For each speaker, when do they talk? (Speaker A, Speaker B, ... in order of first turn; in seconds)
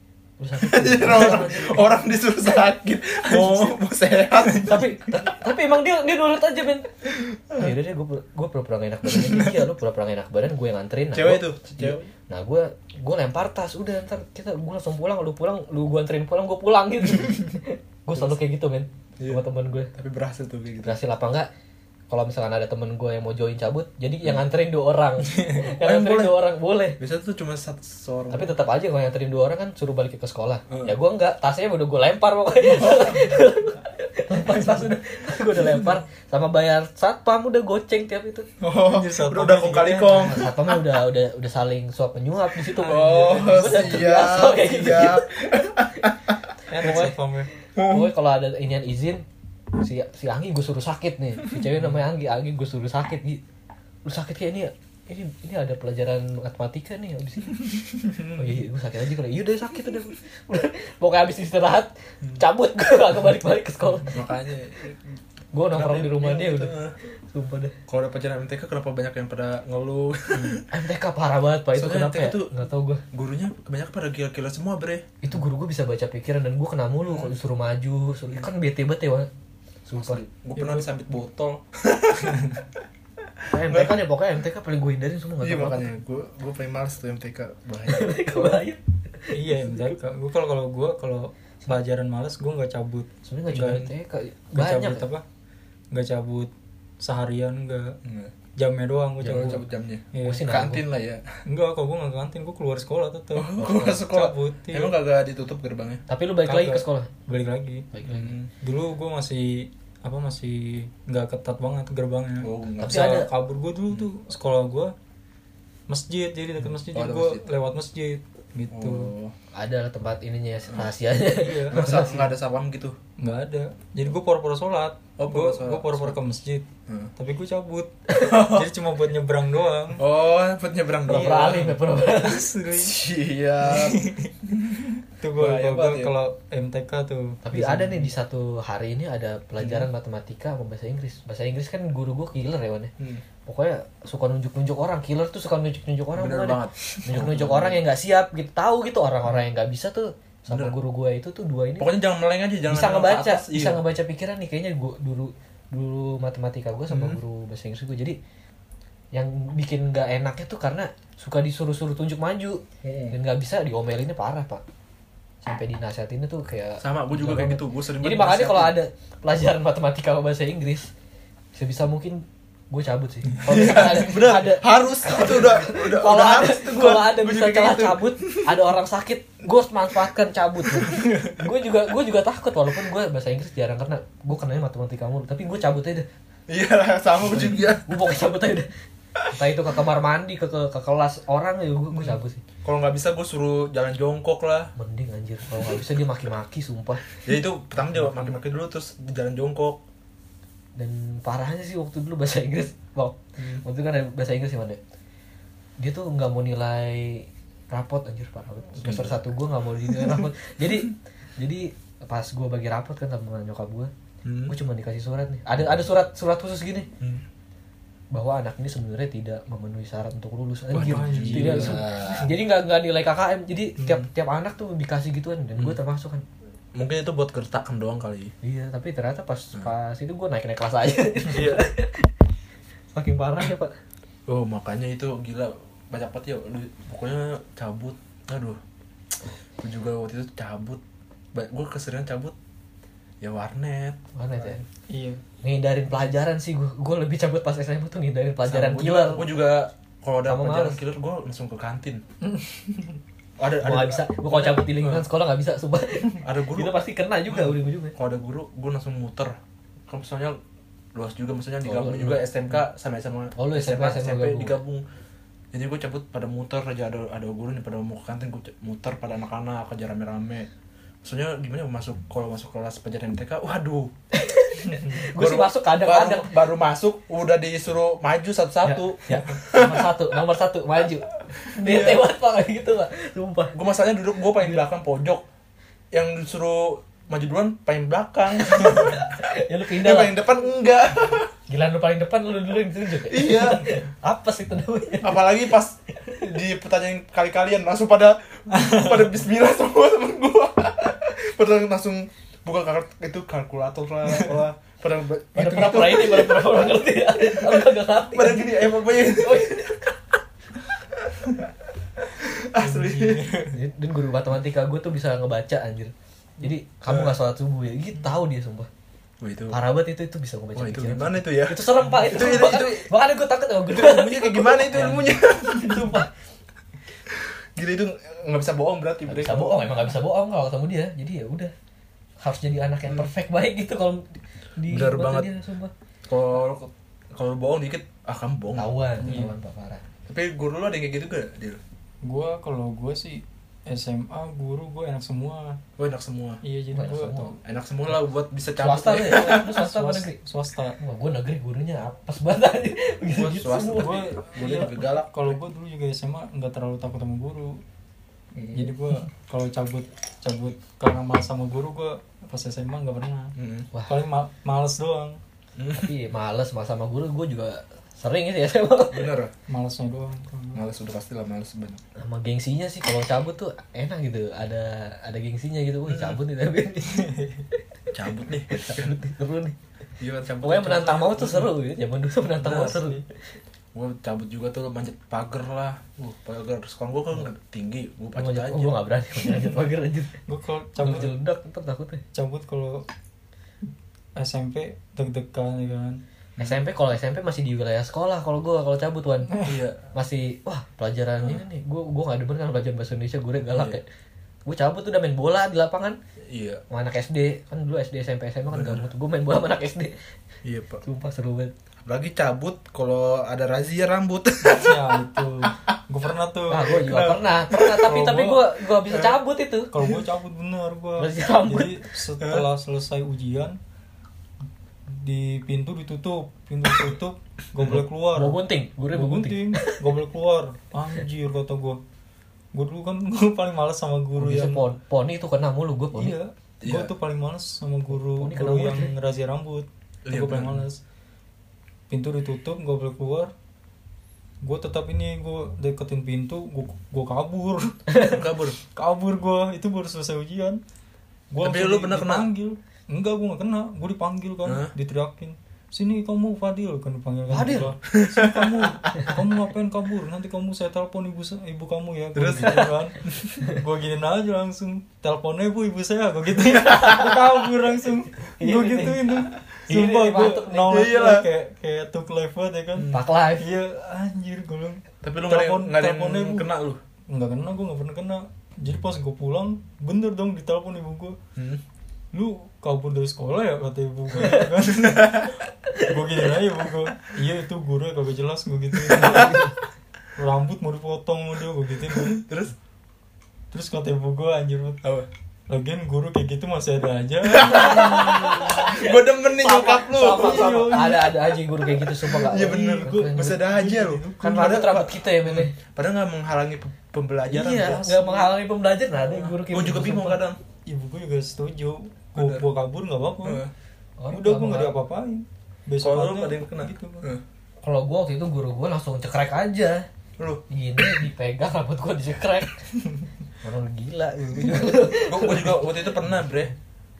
Speaker A: 0.4-1.9, 4.5-7.0, 7.5-19.9, 20.8-21.5, 22.1-27.0, 28.3-38.5, 40.2-45.3, 46.7-49.2, 49.8-53.4, 54.0-64.2, 65.5-66.7, 67.3-67.8, 70.5-73.0, 75.2-79.3, 79.9-80.2, 83.5-85.9, 87.9-89.9, 93.3-95.1, 100.2-100.8, 106.1-107.1, 107.9-108.3, 112.8-113.3, 119.5-122.3, 131.1-132.5, 137.4-142.9, 143.5-151.9, 152.7-158.2, 159.1-164.6, 165.4-170.9, 171.6-186.1, 187.3-188.7, 189.3-192.4, 194.8-197.2, 200.8-204.8, 205.8-213.9, 214.5-216.9, 218.1-226.2, 228.4-232.1, 232.9-233.7, 244.2-244.6, 245.4-249.3, 250.3-250.8, 253.6-257.9, 261.6-262.2, 263.4-264.6, 274.1-276.3, 278.6-283.6, 288.4-290.2, 291.5-295.4, 305.4-310.0, 313.5-318.7, 319.5-326.1, 329.1-331.5, 332.2-335.7, 338.6-339.8, 346.7-347.4, 348.6-350.2, 350.8-354.0, 365.8-369.1, 372.0-377.1, 378.5-379.6, 380.4-383.1, 388.2-390.2, 390.8-392.0, 396.4-399.4, 399.9-403.9, 404.5-406.0, 406.7-409.9, 410.8-411.5, 416.5-419.7, 421.0-421.8, 428.1-429.8, 434.2-436.2, 438.1-438.9, 457.3-457.8, 466.7-467.2, 468.4-470.9, 472.9-473.5, 489.0-489.5, 497.4-503.4, 504.2-505.5, 507.3-510.2, 514.0-514.8, 517.6-519.9, 520.5-522.6, 523.4-525.6
Speaker B: 0.6-4.9, 7.4-7.7, 11.1-12.1, 19.9-21.0, 25.6-26.4, 27.0-28.6, 32.7-33.4, 38.6-40.9, 42.7-46.4, 47.8-48.1, 64.1-65.2, 65.7-66.9, 67.9-70.7, 71.7-72.5, 73.1-75.1, 77.0-77.3, 80.0-82.6, 83.4-84.0, 85.4-88.6, 98.0-98.3, 99.2-101.2, 103.3-106.0, 108.0-108.5, 112.4-113.2, 116.9-117.4, 118.7-119.3, 121.7-123.0, 125.2-126.2, 128.2-128.7, 130.0-131.8, 132.7-136.1, 139.6-139.9, 143.0-143.2, 146.2-147.8, 150.5-150.8, 151.8-153.8, 156.9-157.2, 162.8-163.2, 166.8-168.8, 173.4-178.6, 180.7-181.3, 186.5-188.0, 192.0-194.7, 197.2-199.8, 203.4-203.6, 208.8-209.2, 209.9-210.2, 214.2-214.6, 220.7-222.4, 223.8-224.1, 226.8-228.3, 231.3-231.7, 234.3-238.6, 239.6-240.8, 241.3-242.3, 243.2-244.0, 248.5-252.0, 253.4-255.1, 256.2-259.4, 259.9-260.4, 260.9-264.9, 265.5-270.5, 271.0-273.9, 274.7-279.9, 281.5-282.1, 283.5-285.2, 285.9-289.1, 289.7-291.3, 293.1-293.7, 295.0-309.6, 311.0-311.5, 312.1-313.3, 316.9-317.1, 319.2-319.6, 320.6-322.9, 323.7-325.9, 327.1-329.9, 334.7-335.3, 336.1-338.7, 340.1-341.6, 345.8-346.4, 347.4-349.6, 353.1-355.4, 358.4-358.7, 363.4-363.7, 365.6-365.9, 368.9-369.3, 370.6-371.8, 375.9-376.2, 377.9-379.0, 380.0-381.5, 383.7-388.8, 399.4-399.8, 403.5-403.8, 406.3-406.6, 408.5-408.9, 410.4-410.8, 411.9-415.0, 416.8-418.0, 418.9-419.1, 422.2-422.4, 436.6-436.9, 440.1-440.6, 448.0-448.6, 451.4-452.3, 454.4-454.7, 457.9-459.0, 462.1-463.4, 470.7-471.3, 472.8-473.0, 475.0-476.8, 481.4-481.6, 484.6-485.3, 488.9-489.4, 492.0-492.5, 494.8-495.1, 497.2-501.0, 502.0-507.9, 509.1-510.4, 512.2-512.5, 513.2-513.5, 515.8-517.2, 524.9-526.5
Speaker C: 3.3-3.8, 4.3-4.9, 25.3-25.7, 38.9-40.4, 42.9-44.1, 46.7-47.5, 80.6-80.9, 89.3-93.9, 94.5-95.2, 95.9-98.0, 98.6-100.4, 101.5-105.0, 106.5-107.9, 108.6-114.9, 115.9-119.1, 121.3-121.8, 123.2-130.0, 131.1-133.0, 133.6-138.1, 220.8-221.8, 244.9-245.2, 252.2-253.0, 298.6-298.9, 312.6-313.6, 339.0-339.3, 342.0-345.6, 346.4-347.3, 349.3-350.8, 353.8-357.6, 358.5-363.4, 363.9-365.2, 369.5-370.6, 376.9-377.4, 382.4-383.0, 390.3-391.1, 392.1-392.9, 394.2-396.0, 414.4-416.9, 417.9-418.4, 419.7-423.6, 424.9-428.4, 428.9-431.8, 432.5-434.7, 435.9-440.8, 441.9-443.3, 444.4-447.9, 448.7-450.6, 451.3-476.5, 477.1-481.2, 482.1-489.4, 490.1-492.2, 493.5-494.8, 495.5-498.8, 500.1-501.4, 502.1-504.3, 507.3-508.3, 510.7-513.4, 514.1-517.1